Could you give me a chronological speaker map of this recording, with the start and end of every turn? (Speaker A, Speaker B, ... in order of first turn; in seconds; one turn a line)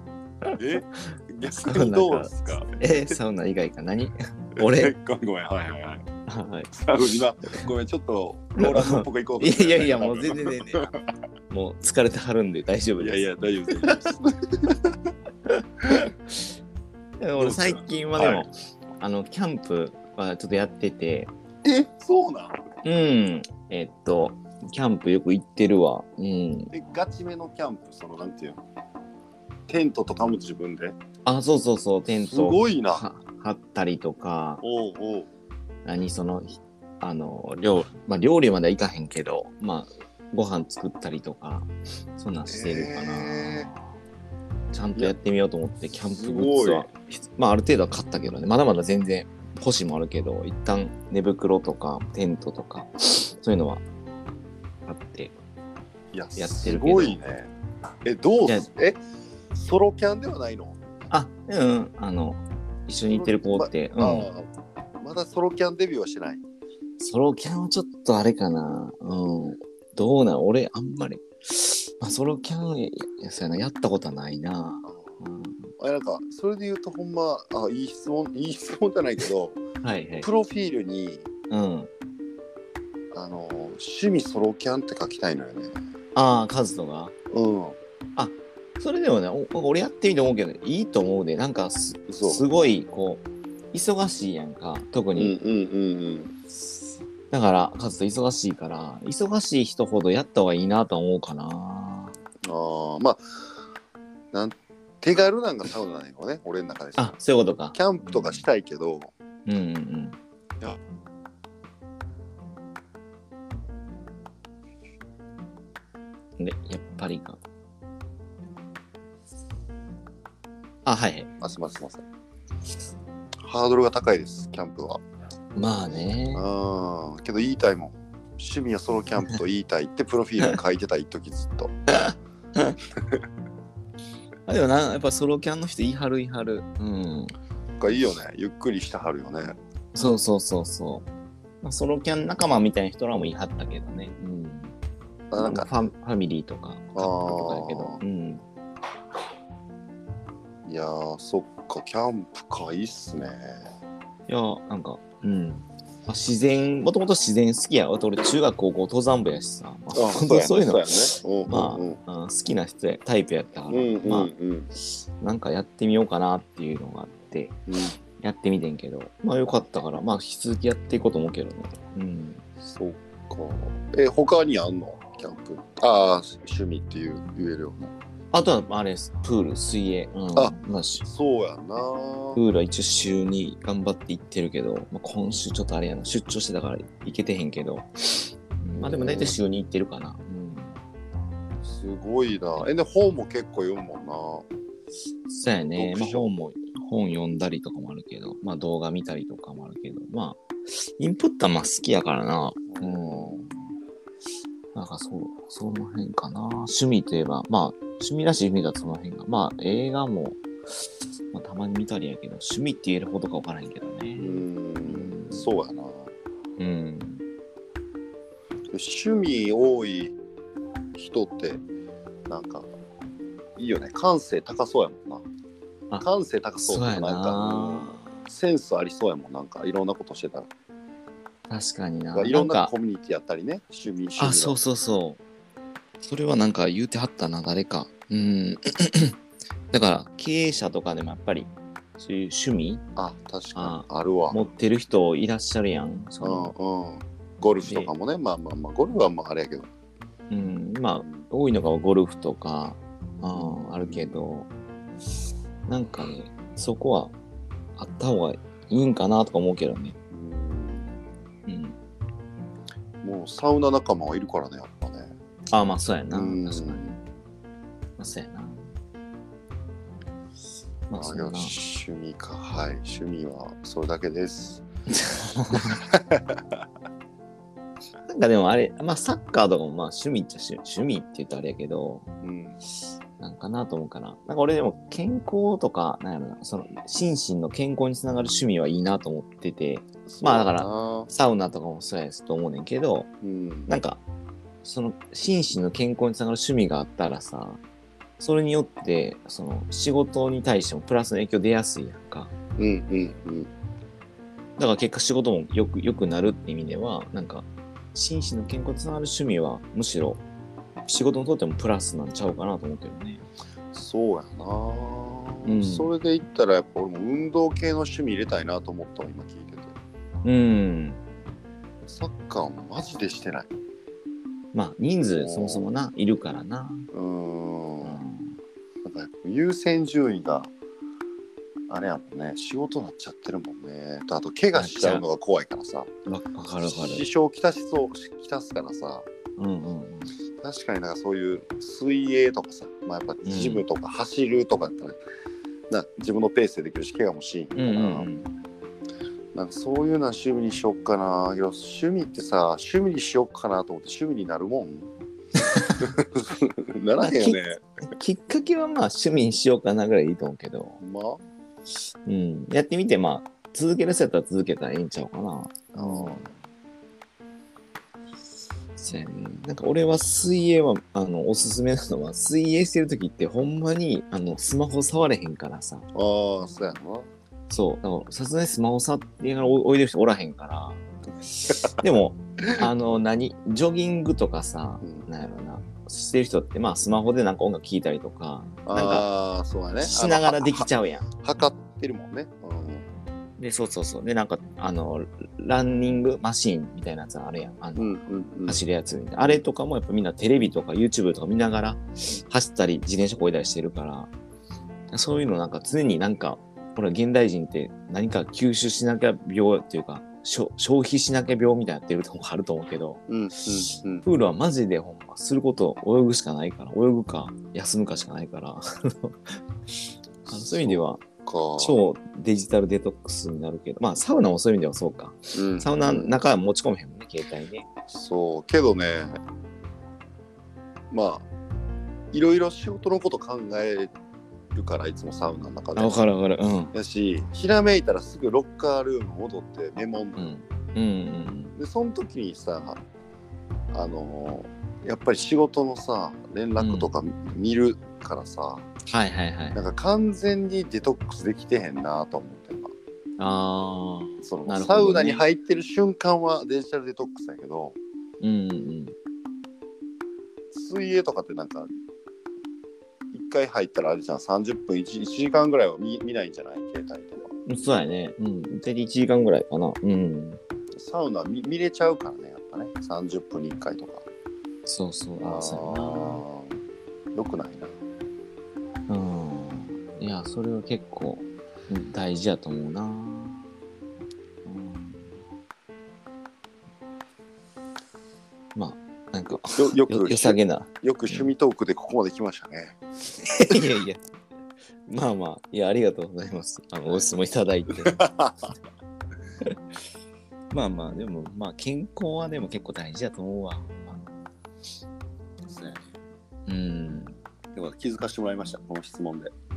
Speaker A: 0.6-3.2
Speaker B: 1.4-4.9
Speaker A: 4.5-6.0
Speaker B: 6.3-7.7
Speaker A: 6.7-11.0
Speaker B: 8.6-10.9
Speaker B: 11.5-13.2
Speaker A: 13.0-14.9
Speaker B: 13.8-14.1
Speaker B: 15.8-16.1
Speaker B: 17.2-21.3
Speaker A: 17.4-18.5
Speaker A: 21.6-22.6
Speaker B: 22.8-26.7
Speaker A: 26.7-28.6
Speaker A: 29.7-31.0
Speaker B: 31.2-34.6
Speaker A: 32.2-33.0
Speaker A: 34.6-35.3
Speaker B: 35.9-43.8
Speaker A: 42.5-43.7
Speaker B: 44.7-53.8
Speaker A: 46.1-46.9
Speaker B: 54.9-55.3
Speaker A: 56.1-57.5
Speaker B: 56.4-57.2
Speaker A: 58.0-59.0
Speaker A: 59.5-60.8
Speaker B: 61.1-64.3
Speaker A: 63.1-64.5
Speaker A: 65.0-66.4
Speaker B: 67.0-75.7
Speaker A: 74.8-75.2
Speaker A: 75.8-79.6
Speaker B: 79.8-80.3
Speaker A: 80.2-81.3
Speaker B: 81.5-81.9
Speaker A: 83.1-85.8
Speaker B: 86.1-87.1
Speaker A: 87.3-87.8
Speaker B: 88.2-95.3
Speaker A: 92.1-92.4
Speaker A: 95.2-96.3
Speaker B: 96.5-102.1
Speaker A: 102.4-103.2
Speaker A: 104.3-107.2
Speaker B: 107.0-108.4
Speaker A: 107.7-109.1
Speaker B: 109.5-110.2
Speaker B: 116.4-117.4
Speaker B: 120.8-121.3
Speaker A: 121.4-122.0
Speaker A: 123.5-125.0
Speaker B: 125.5-126.5
Speaker A: 126.3-131.7
Speaker B: 131.9-132.8
Speaker B: 134.5-137.3
Speaker A: 137.8-139.6
Speaker B: 139.9-141.1
Speaker B: 141.6-144.8
Speaker A: 145.3-145.8
Speaker B: 145.4-148.4
Speaker A: 146.9-148.0
Speaker A: 150.6-153.7
Speaker B: 154.3-164.3
Speaker A: 159.9-162.0
Speaker A: 163.7-164.7
Speaker B: 165.2-167.6
Speaker A: 167.7-168.0
Speaker B: 168.2-172.4
Speaker A: 172.6-177.9
Speaker B: 178.3-181.0
Speaker A: 180.3-182.4
Speaker B: 182.3-190.8
Speaker A: 188.7-189.4
Speaker A: 191.6-194.5
Speaker B: 195.3-203.5
Speaker A: 195.8-196.3
Speaker A: 202.7-203.4
Speaker B: 204.7-215.5
Speaker A: 214.2-216.1
Speaker B: 216.6-217.2
Speaker A: 218.7-220.2
Speaker A: 220.9-221.6
Speaker A: 222.3-222.7
Speaker A: 223.6-225.2
Speaker A: 226.0-230.5
Speaker B: 226.6-228.3
Speaker B: 231.5-232.7
Speaker A: 232.1-234.6
Speaker B: 234.2-235.2
Speaker B: 236.0-239.1
Speaker B: 239.7-242.8
Speaker A: 242.9-244.4
Speaker B: 243.5-246.5
Speaker A: 246.2-249.7
Speaker B: 247.6-247.9
Speaker B: 250.3-254.5
Speaker A: 251.0-251.3
Speaker A: 253.3-254.3
Speaker B: 255.7-257.1
Speaker B: 257.8-259.9
Speaker A: 260.1-261.1
Speaker B: 261.5-261.7
Speaker A: 263.0-265.1
Speaker B: 265.5-266.9
Speaker A: 266.1-266.9
Speaker B: 268.0-268.7
Speaker B: 270.9-271.6
Speaker A: 270.9-274.6
Speaker B: 274.9-275.8
Speaker A: 275.9-276.4
Speaker B: 278.1-282.0
Speaker A: 282.2-282.6
Speaker B: 283.2-293.1
Speaker A: 290.1-291.1
Speaker A: 293.2-293.7
Speaker B: 293.7-294.0
Speaker B: 294.6-297.6
Speaker B: 298.2-302.3
Speaker A: 302.6-303.5
Speaker B: 304.6-310.2
Speaker B: 310.9-313.2
Speaker A: 313.7-319.7
Speaker B: 315.4-315.9
Speaker B: 320.2-321.0
Speaker A: 321.9-323.5
Speaker B: 324.5-326.9
Speaker A: 325.0-325.7
Speaker A: 326.9-328.0
Speaker B: 327.8-328.4
Speaker A: 328.8-330.5
Speaker A: 331.7-335.9
Speaker B: 334.5-335.0
Speaker B: 336.1-337.1
Speaker A: 336.7-339.1
Speaker B: 339.4-340.1
Speaker A: 340.4-345.0
Speaker B: 343.2-343.6
Speaker A: 345.7-348.1
Speaker B: 347.6-348.3
Speaker A: 349.3-354.9
Speaker A: 355.8-357.6
Speaker B: 357.0-360.8
Speaker A: 360.8-361.2
Speaker B: 362.1-366.3
Speaker A: 365.7-366.3
Speaker B: 368.8-375.9
Speaker A: 375.9-377.1
Speaker B: 377.5-380.8
Speaker B: 381.8-389.1
Speaker A: 384.8-385.1
Speaker A: 388.6-390.7
Speaker B: 389.8-391.1
Speaker A: 391.2-392.9
Speaker B: 393.4-397.9
Speaker A: 397.8-398.6
Speaker B: 398.4-404.1
Speaker B: 404.9-413.0
Speaker A: 413.1-414.1
Speaker B: 414.0-419.4
Speaker A: 420.2-421.8
Speaker B: 420.3-421.0
Speaker B: 421.6-427.6
Speaker A: 425.3-426.2
Speaker A: 427.9-429.2
Speaker A: 430.9-431.2
Speaker A: 432.1-433.9
Speaker A: 434.5-436.0
Speaker B: 435.8-436.7
Speaker A: 436.7-440.3
Speaker B: 440.1-441.5
Speaker A: 441.6-442.8
Speaker A: 443.7-448.7
Speaker B: 446.6-446.9
Speaker B: 448.9-449.6
Speaker A: 449.5-452.7
Speaker B: 453.2-455.2
Speaker A: 454.2-457.8
Speaker B: 458.2-458.9
Speaker A: 460.5-461.7
Speaker A: 463.1-467.3
Speaker B: 467.4-470.4
Speaker A: 470.7-474.1
Speaker B: 474.6-476.2
Speaker A: 475.2-476.6
Speaker A: 477.1-477.8
Speaker B: 478.9-483.4
Speaker B: 484.4-485.1
Speaker B: 488.5-491.3
Speaker A: 489.5-492.8
Speaker B: 493.2-494.0
Speaker B: 494.9-498.0
Speaker A: 497.9-498.5
Speaker B: 500.5-504.1
Speaker A: 505.5-505.9
Speaker B: 506.5-507.1
Speaker A: 507.5-509.3